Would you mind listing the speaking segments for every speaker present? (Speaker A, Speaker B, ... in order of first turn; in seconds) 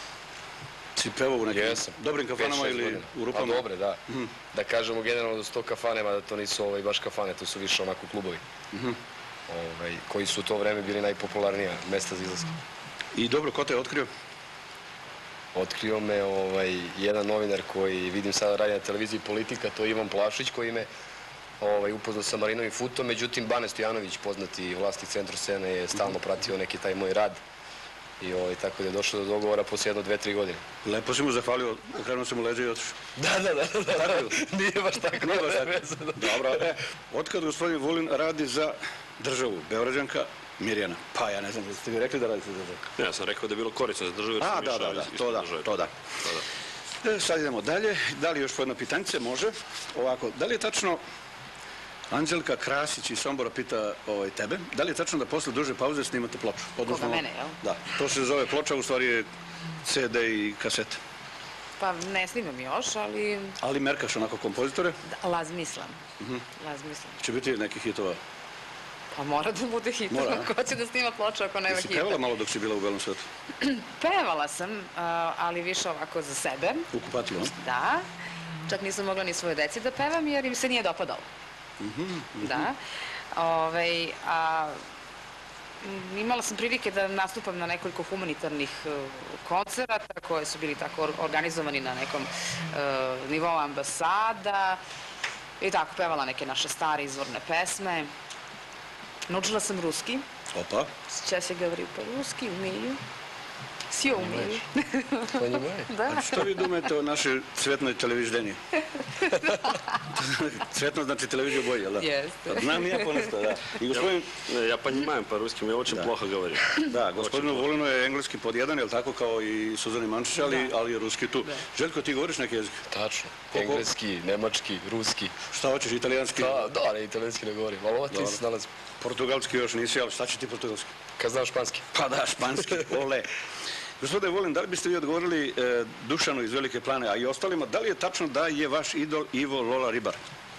Speaker A: 0.9-4.3, 8.7-9.0, 13.1-14.1, 30.8-33.0, 33.9-34.4, 35.1-42.8, 44.4-45.9, 47.0-51.0, 52.1-59.3, 59.8-61.0, 63.6-65.0, 67.2-68.2, 70.1-70.5, 71.7-73.2, 76.9-77.5, 81.8-82.7, 100.5-100.9, 106.1-108.6, 110.1-114.3, 116.8-122.8, 123.5-123.9, 125.5-126.7, 128.1-128.4, 129.0-130.9, 131.9-133.3, 134.0-140.2
Speaker B: 1.5-4.0, 4.5-8.4, 9.5-12.5, 15.5-20.9, 21.6-27.4, 28.2-30.6, 33.2-36.7, 104.1-104.6, 105.3-105.9, 122.9-125.3, 126.3-128.7, 131.2-131.9
Speaker C: 43.0-46.5, 113.9-117.7
Speaker D: 56.8-57.6, 61.8-63.6, 65.0-66.0, 66.6-67.2, 69.1-72.2, 73.6-76.9, 77.5-78.0, 78.7-81.3, 82.4-82.8, 83.3-84.8, 85.8-94.8, 95.6-98.1, 99.3-100.2, 101.1-103.0, 103.9-106.7, 109.2-110.0, 112.0-113.3, 120.4-120.7